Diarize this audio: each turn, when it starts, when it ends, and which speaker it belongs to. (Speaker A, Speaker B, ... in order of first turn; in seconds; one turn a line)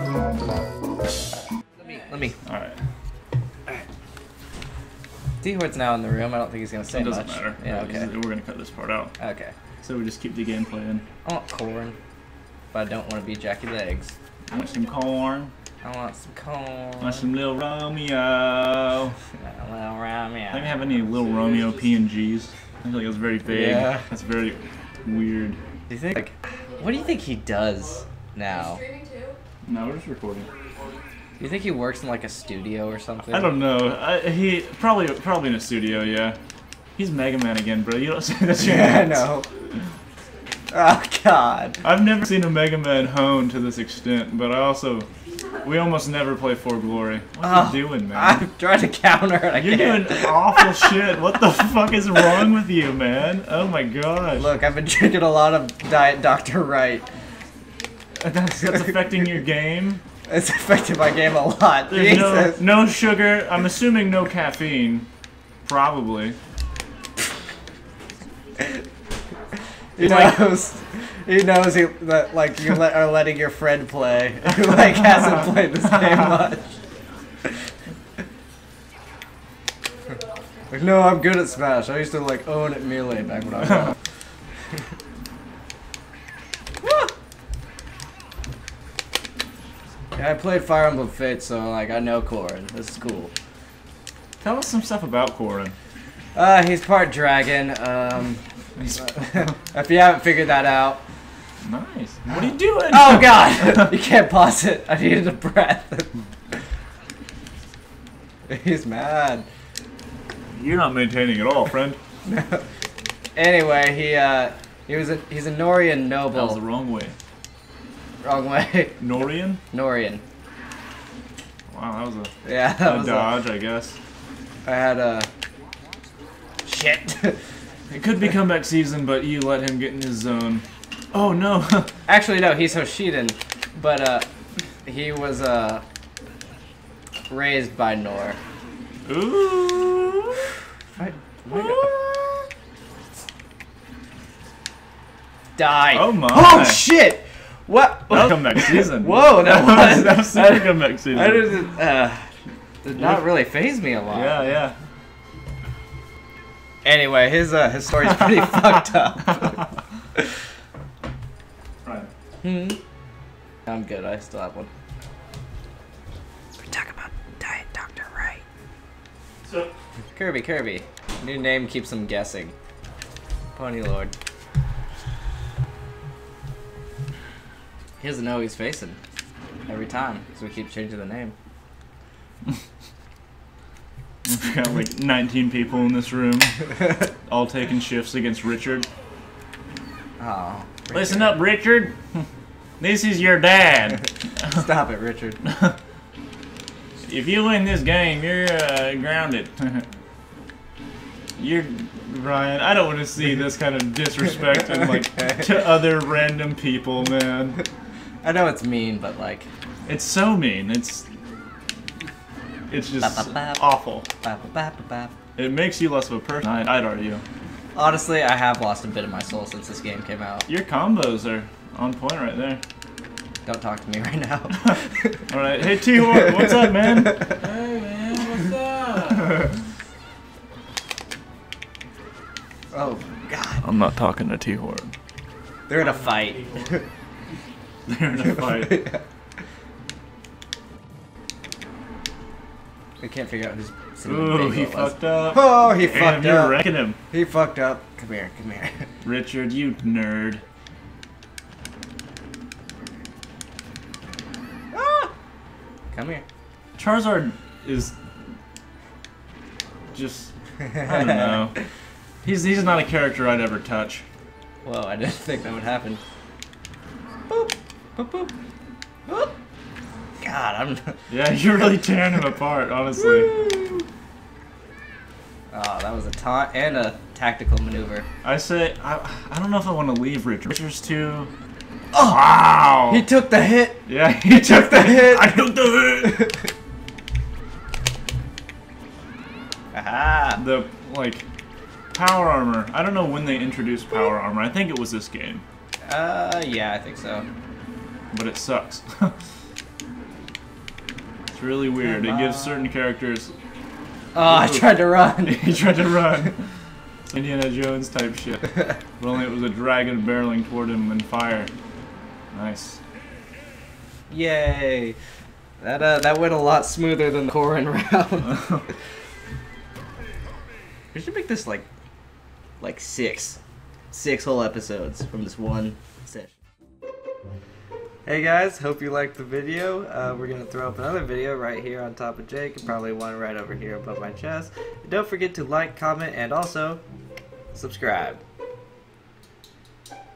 Speaker A: 1.9-2.4
Speaker B: 2.5-2.8
Speaker A: 5.4-8.1
Speaker B: 6.9-9.1
Speaker A: 9.2-9.5
Speaker B: 9.8-11.0
Speaker A: 11.2-12.0
Speaker A: 12.7-14.1
Speaker B: 14.5-15.5
Speaker A: 15.8-17.2
Speaker B: 17.0-19.2
Speaker A: 19.4-20.7
Speaker B: 20.5-25.6
Speaker A: 23.5-24.0
Speaker A: 25.9-28.9
Speaker B: 29.6-30.5
Speaker A: 31.4-33.5
Speaker B: 33.3-36.4
Speaker B: 37.0-39.2
Speaker A: 38.6-39.5
Speaker A: 40.7-41.8
Speaker B: 41.8-45.1
Speaker B: 45.6-48.4
Speaker A: 47.4-50.9
Speaker B: 49.5-54.5
Speaker A: 54.4-57.0
Speaker B: 58.2-60.0
Speaker A: 60.3-62.6
Speaker B: 61.9-65.1
Speaker B: 65.7-66.4
Speaker A: 70.0-76.8
Speaker B: 70.0-70.3
Speaker A: 80.7-84.0
Speaker A: 86.8-87.1
Speaker A: 90.1-93.3
Speaker B: 94.4-95.8
Speaker A: 96.3-98.4
Speaker B: 98.8-99.2
Speaker A: 99.0-101.0
Speaker B: 101.6-103.9
Speaker A: 102.9-106.1
Speaker A: 108.5-109.5
Speaker B: 110.5-112.0
Speaker A: 112.2-112.6
Speaker A: 113.4-116.6
Speaker B: 116.3-117.2
Speaker A: 118.2-119.0
Speaker B: 119.0-119.6
Speaker A: 119.7-120.2
Speaker B: 121.7-124.0
Speaker A: 122.4-123.3
Speaker A: 124.7-125.3
Speaker A: 126.7-127.4
Speaker B: 127.9-131.9
Speaker A: 132.1-134.3
Speaker A: 134.8-135.8
Speaker A: 137.3-138.4
Speaker B: 139.1-140.4
Speaker A: 141.0-142.0
Speaker B: 141.5-142.2
Speaker A: 145.6-152.3
Speaker B: 145.9-146.8
Speaker B: 148.1-151.6
Speaker A: 152.8-154.4
Speaker B: 153.0-153.3
Speaker B: 154.1-154.8
Speaker A: 156.8-159.6
Speaker B: 161.8-162.1
Speaker A: 162.4-162.8
Speaker A: 163.7-164.7
Speaker A: 166.6-168.4
Speaker B: 169.4-169.7
Speaker A: 170.2-172.5
Speaker A: 173.6-174.1
Speaker A: 178.0-179.0
Speaker A: 179.7-181.3
Speaker B: 184.2-186.8
Speaker B: 187.3-188.9
Speaker A: 190.2-191.4
Speaker B: 190.9-192.2
Speaker B: 192.8-194.6
Speaker A: 194.4-195.4
Speaker B: 195.4-195.8
Speaker B: 197.1-199.8
Speaker B: 201.4-207.6
Speaker A: 208.2-209.5
Speaker B: 209.9-211.1
Speaker B: 212.7-214.1
Speaker A: 213.0-213.6
Speaker A: 214.2-215.1
Speaker B: 215.4-217.2
Speaker A: 217.8-220.5
Speaker B: 220.5-222.6
Speaker A: 223.4-225.3
Speaker B: 225.3-229.5
Speaker A: 226.0-227.3
Speaker A: 232.7-233.7
Speaker B: 233.6-234.9
Speaker A: 235.7-236.8
Speaker B: 235.8-236.7
Speaker B: 237.9-238.9
Speaker A: 238.5-239.0
Speaker A: 243.0-248.9
Speaker B: 244.1-247.0
Speaker B: 249.0-250.4
Speaker A: 254.7-255.1
Speaker A: 255.9-256.2
Speaker B: 256.8-258.0
Speaker B: 259.9-261.6
Speaker A: 260.6-261.5
Speaker B: 262.2-264.0
Speaker A: 264.6-266.0
Speaker A: 267.3-268.3
Speaker A: 269.1-269.4
Speaker A: 270.2-271.0
Speaker B: 271.1-273.3
Speaker A: 273.0-273.9
Speaker A: 275.5-278.1
Speaker B: 278.2-281.3
Speaker B: 281.9-283.0
Speaker A: 282.9-286.4
Speaker B: 283.9-286.3
Speaker A: 289.7-290.4
Speaker B: 290.4-291.2
Speaker B: 291.9-295.4
Speaker A: 295.9-297.3
Speaker B: 298.1-299.1
Speaker B: 301.3-303.3
Speaker A: 301.8-302.7
Speaker A: 304.1-305.8
Speaker B: 304.2-306.4
Speaker B: 307.1-311.5
Speaker B: 312.3-312.8
Speaker A: 314.1-315.0
Speaker A: 315.6-318.7
Speaker A: 320.9-321.7
Speaker A: 322.6-323.4
Speaker A: 323.9-326.3
Speaker A: 328.1-336.8
Speaker A: 337.5-338.2